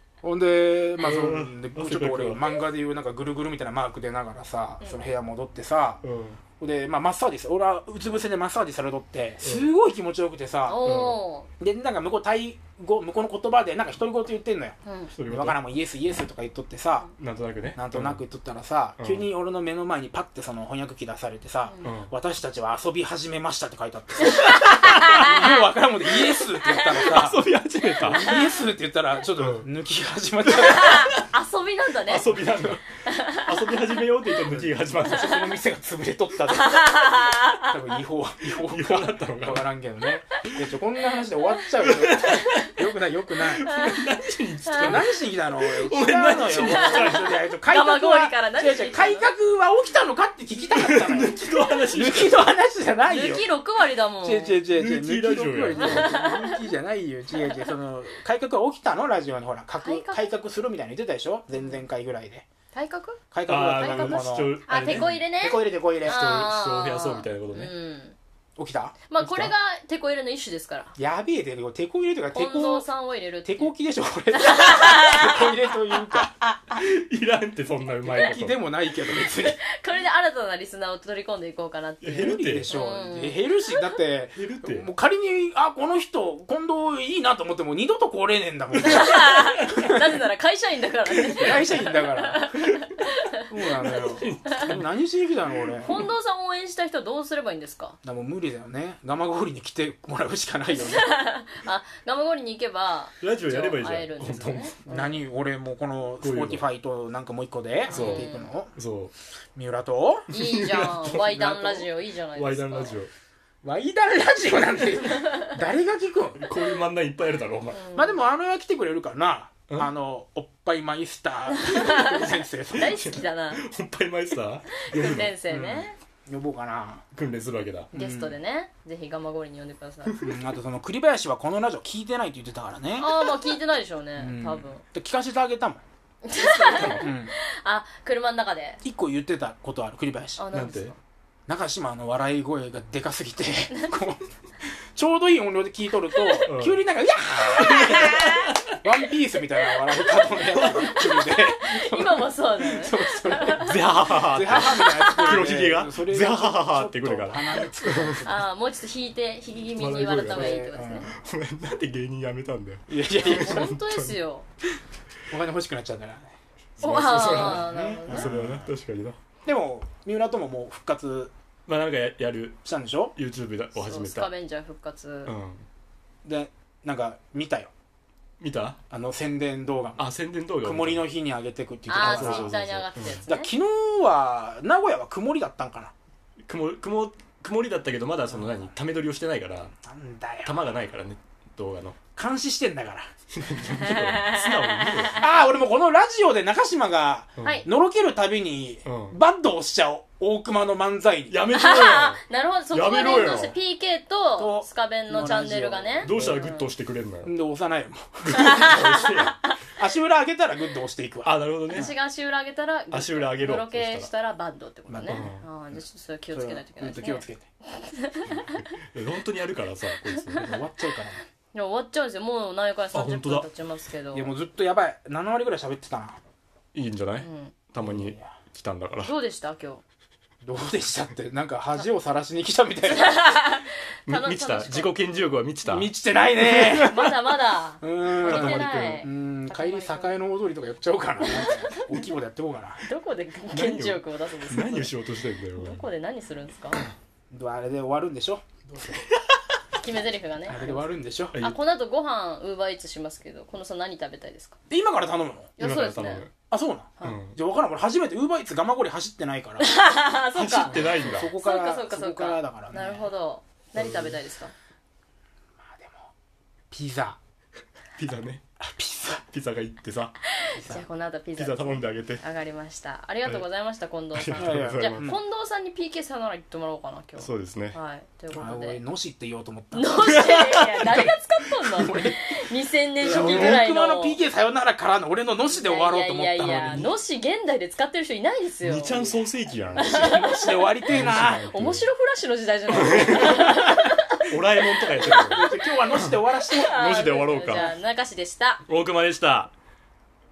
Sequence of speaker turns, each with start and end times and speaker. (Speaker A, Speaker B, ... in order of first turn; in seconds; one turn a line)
Speaker A: 0.2-6.0
Speaker B: 1.0-2.5
Speaker B: 6.0-6.4
Speaker A: 6.6-10.8
Speaker B: 9.4-9.7
Speaker C: 10.7-11.5
Speaker B: 10.8-11.2
Speaker A: 11.6-17.1
Speaker C: 14.8-15.1
Speaker B: 15.2-15.6
Speaker B: 17.2-18.2
Speaker A: 17.8-27.5
Speaker B: 19.0-19.2
Speaker B: 21.8-22.1
Speaker C: 24.2-25.5
Speaker C: 26.6-27.1
Speaker B: 26.9-28.4
Speaker A: 28.0-31.1
Speaker C: 28.2-28.5
Speaker B: 29.3-29.6
Speaker C: 30.5-32.2
Speaker B: 30.7-31.2
Speaker B: 32.0-35.5
Speaker A: 32.3-32.8
Speaker C: 33.1-33.6
Speaker A: 34.5-43.7
Speaker C: 36.5-37.9
Speaker B: 38.6-39.6
Speaker B: 41.8-42.7
Speaker B: 43.4-47.4
Speaker C: 43.6-44.0
Speaker C: 44.6-45.0
Speaker A: 44.8-53.4
Speaker C: 46.6-49.3
Speaker B: 50.7-52.5
Speaker C: 53.1-54.6
Speaker A: 54.2-62.5
Speaker B: 54.7-56.1
Speaker C: 55.7-56.6
Speaker C: 57.3-57.7
Speaker C: 59.8-60.3
Speaker C: 62.7-68.1
Speaker A: 63.3-66.5
Speaker B: 63.5-65.2
Speaker B: 66.0-67.7
Speaker A: 68.6-69.0
Speaker C: 69.1-70.9
Speaker B: 69.2-69.5
Speaker A: 71.0-72.9
Speaker C: 72.3-73.7
Speaker A: 73.4-76.3
Speaker C: 74.3-76.8
Speaker B: 76.7-78.6
Speaker A: 78.0-79.6
Speaker C: 79.2-83.9
Speaker B: 82.0-82.8
Speaker A: 82.2-90.0
Speaker B: 84.3-84.9
Speaker C: 88.8-93.4
Speaker A: 91.3-92.5
Speaker A: 93.5-96.0
Speaker B: 93.8-94.9
Speaker B: 95.5-96.1
Speaker C: 95.8-98.0
Speaker A: 98.0-101.1
Speaker C: 100.7-105.1
Speaker B: 103.2-104.8
Speaker A: 104.8-108.7
Speaker B: 106.2-106.6
Speaker C: 107.9-108.5
Speaker B: 107.9-109.1
Speaker A: 109.5-110.3
Speaker C: 110.3-113.0
Speaker B: 110.3-113.1
Speaker A: 113.6-116.5
Speaker C: 115.2-115.5
Speaker B: 116.4-117.8
Speaker C: 117.7-118.2
Speaker A: 117.9-123.0
Speaker C: 121.5-123.6
Speaker B: 122.8-125.4
Speaker C: 124.8-126.0
Speaker A: 124.9-127.0
Speaker B: 127.1-127.9
Speaker A: 127.9-128.3
Speaker C: 127.9-130.2
Speaker B: 130.1-130.3
Speaker A: 130.2-133.3
Speaker C: 133.0-134.8
Speaker A: 134.2-135.8
Speaker C: 136.2-138.8
Speaker B: 136.4-137.1
Speaker A: 136.9-137.3
Speaker A: 138.8-140.4
Speaker C: 140.4-140.9
Speaker B: 140.5-140.9
Speaker A: 141.5-158.4
Speaker B: 146.4-146.8
Speaker B: 147.6-148.8
Speaker C: 147.7-148.5
Speaker C: 149.9-153.8
Speaker B: 150.4-151.2
Speaker B: 153.6-158.2
Speaker C: 154.4-155.4
Speaker C: 157.8-161.1
Speaker B: 159.8-164.2
Speaker A: 160.2-161.1
Speaker A: 162.9-163.7
Speaker C: 163.2-164.5
Speaker A: 165.3-166.4
Speaker B: 166.8-169.2
Speaker C: 166.8-168.3
Speaker A: 166.9-168.7
Speaker A: 169.4-171.3
Speaker B: 171.7-172.6
Speaker A: 172.6-173.1
Speaker B: 173.2-174.3
Speaker C: 173.8-175.3
Speaker B: 175.2-175.7
Speaker A: 176.2-177.7
Speaker B: 178.4-178.8
Speaker A: 178.9-180.0
Speaker B: 180.0-181.0
Speaker A: 180.6-182.6
Speaker C: 181.9-183.5
Speaker B: 181.9-183.2
Speaker A: 183.3-185.9
Speaker B: 186.4-189.7
Speaker A: 188.3-188.7
Speaker A: 189.8-190.6
Speaker B: 190.4-192.0
Speaker A: 192.1-193.1
Speaker B: 193.3-195.2
Speaker C: 193.8-195.2
Speaker A: 195.2-201.4
Speaker B: 198.8-199.2
Speaker B: 201.3-203.6
Speaker C: 201.5-206.7
Speaker A: 204.4-206.5
Speaker B: 206.0-207.3
Speaker A: 207.2-209.0
Speaker B: 208.2-209.4
Speaker C: 208.3-209.2
Speaker A: 209.8-211.9
Speaker B: 211.2-211.9
Speaker C: 211.7-218.6
Speaker B: 212.9-214.1
Speaker A: 214.9-215.3
Speaker B: 215.1-215.4
Speaker A: 216.3-217.5
Speaker B: 218.9-220.5
Speaker C: 220.1-220.4
Speaker A: 220.3-221.2
Speaker C: 221.5-224.3
Speaker B: 222.9-223.5
Speaker A: 224.1-226.2
Speaker B: 226.7-229.1
Speaker C: 227.2-227.5
Speaker A: 227.8-228.3
Speaker C: 229.0-229.8
Speaker A: 230.4-233.2
Speaker C: 232.8-235.2
Speaker B: 234.1-237.1
Speaker A: 235.7-237.0
Speaker C: 236.8-240.2
Speaker A: 237.8-242.8
Speaker B: 238.2-239.1
Speaker C: 241.2-241.9
Speaker C: 242.8-244.9
Speaker B: 243.5-245.8
Speaker C: 245.5-246.8
Speaker A: 247.3-249.0
Speaker B: 249.1-249.4
Speaker C: 249.8-250.8
Speaker A: 250.5-251.3
Speaker C: 251.4-254.6
Speaker A: 254.7-255.5
Speaker C: 255.6-256.2
Speaker B: 255.6-256.3
Speaker A: 256.5-259.7
Speaker B: 257.0-257.3
Speaker C: 259.6-264.5
Speaker B: 260.4-261.3
Speaker A: 260.6-263.1
Speaker B: 263.7-264.2
Speaker A: 265.6-266.1
Speaker A: 266.7-267.2
Speaker B: 268.0-268.4
Speaker A: 268.6-269.2
Speaker B: 269.2-270.1
Speaker C: 270.3-278.8
Speaker A: 270.6-270.8
Speaker B: 271.4-272.2
Speaker B: 274.1-275.1
Speaker A: 274.3-275.2
Speaker B: 277.2-277.8
Speaker A: 278.3-280.1
Speaker C: 279.7-284.2
Speaker B: 280.1-281.1
Speaker A: 281.7-282.2
Speaker A: 283.0-286.9
Speaker B: 283.0-283.6
Speaker C: 285.5-289.0
Speaker B: 288.6-290.2
Speaker C: 289.8-290.9
Speaker A: 289.8-291.5
Speaker B: 290.9-291.9
Speaker C: 291.5-294.2
Speaker B: 292.7-293.5
Speaker A: 292.8-294.0
Speaker B: 294.2-296.1
Speaker C: 294.9-295.7
Speaker A: 295.0-297.8
Speaker C: 296.4-298.6
Speaker B: 296.7-297.7
Speaker B: 298.6-299.5